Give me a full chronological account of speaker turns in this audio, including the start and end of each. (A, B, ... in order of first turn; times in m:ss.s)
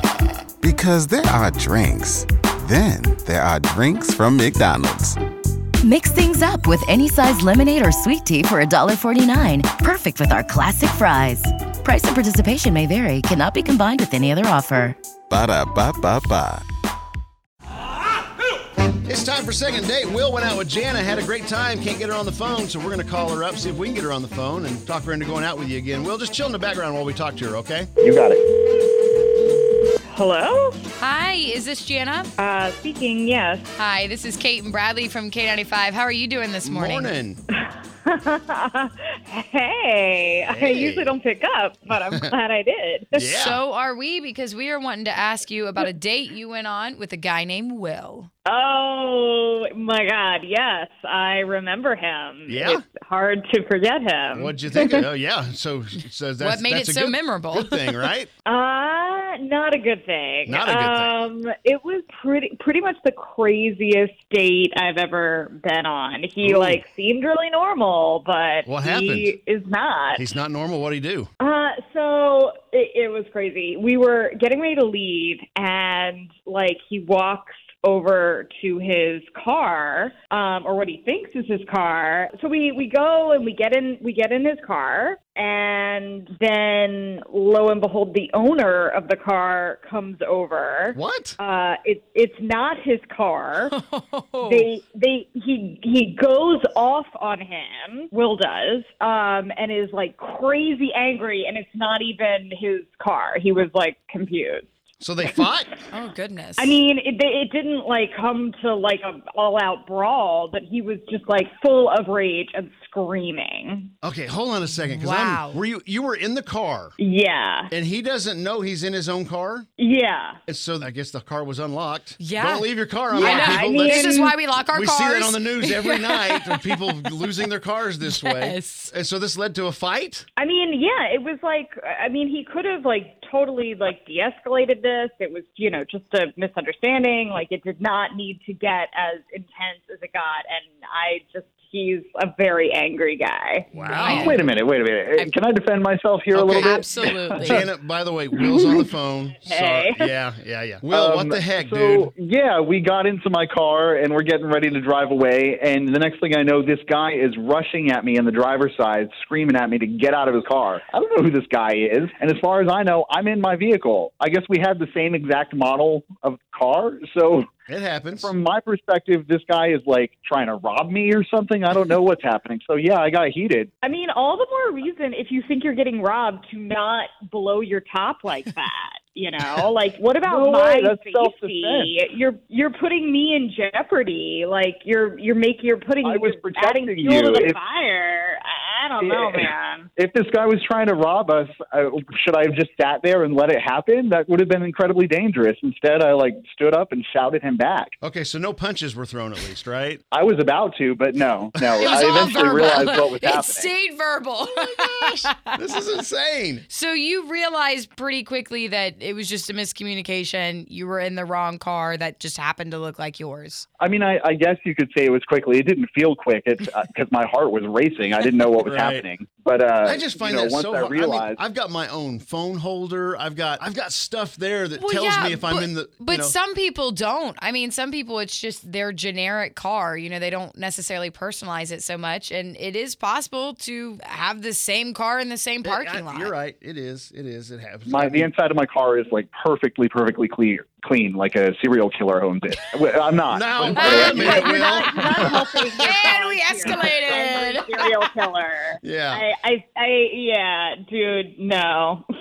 0:00.6-0:05.2 A
0:05.8-0:15.0 B
0:15.3-0:16.6 A
0:19.0-0:27.9 C
0:28.0-0:28.4 D
0:30.1-0:30.8 E
0:31.0-0:32.3 F
0:32.4-0:33.7 E
0:33.8-0:37.1 F
0:36.6-0:37.4 C
0:37.5-0:43.3 E
0:40.5-0:41.2 C
0:43.1-0:43.6 C
0:43.4-0:48.3 F
0:48.4-0:55.0 E
0:52.5-0:52.8 C
0:54.3-0:58.3 C
0:56.4-0:58.1 F
0:58.4-1:10.2 E
1:00.4-1:01.1 C
1:06.4-1:06.8 C
1:08.6-1:09.3 C
1:10.2-1:11.3 C
1:11.4-1:33.7 E
1:30.9-1:31.4 C
1:33.7-1:34.7 F
1:34.4-1:44.7 E
1:45.0-1:45.7 C
1:45.9-1:46.8 F
1:46.6-1:53.9 E
1:54.0-1:57.0 C
1:54.9-1:55.6 F
1:57.0-1:57.7 E
1:57.7-1:59.7 C
1:59.8-2:00.4 E
2:00.5-2:10.2 C
2:02.2-2:07.3 F
2:03.1-2:04.3 E
2:08.0-2:08.9 F
2:10.4-2:23.7 E
2:23.7-2:24.4 C
2:23.7-2:24.5 F
2:24.0-2:27.6 D
2:26.4-2:26.7 C
2:26.4-2:27.7 F
2:27.4-2:32.1 C
2:28.4-2:28.8 E
2:29.4-2:30.1 E
2:30.9-2:47.5 D
2:47.7-2:48.3 C
2:48.2-2:53.7 D
2:53.8-3:09.9 E
3:00.2-3:01.9 D
3:06.0-3:07.6 D
3:09.0-3:17.9 D
3:18.0-3:20.0 C
3:20.1-3:23.7 D
3:21.8-3:25.8 F
3:25.5-3:26.6 C
3:26.7-3:33.7 F
3:33.8-3:41.4 D
3:38.6-3:39.1 C
3:39.8-3:46.3 C
3:44.8-3:56.3 F
3:55.6-3:58.3 C
3:57.9-4:04.5 D
4:03.3-4:06.1 C
4:03.6-4:08.2 F
4:03.8-4:12.0 E
4:08.8-4:09.2 C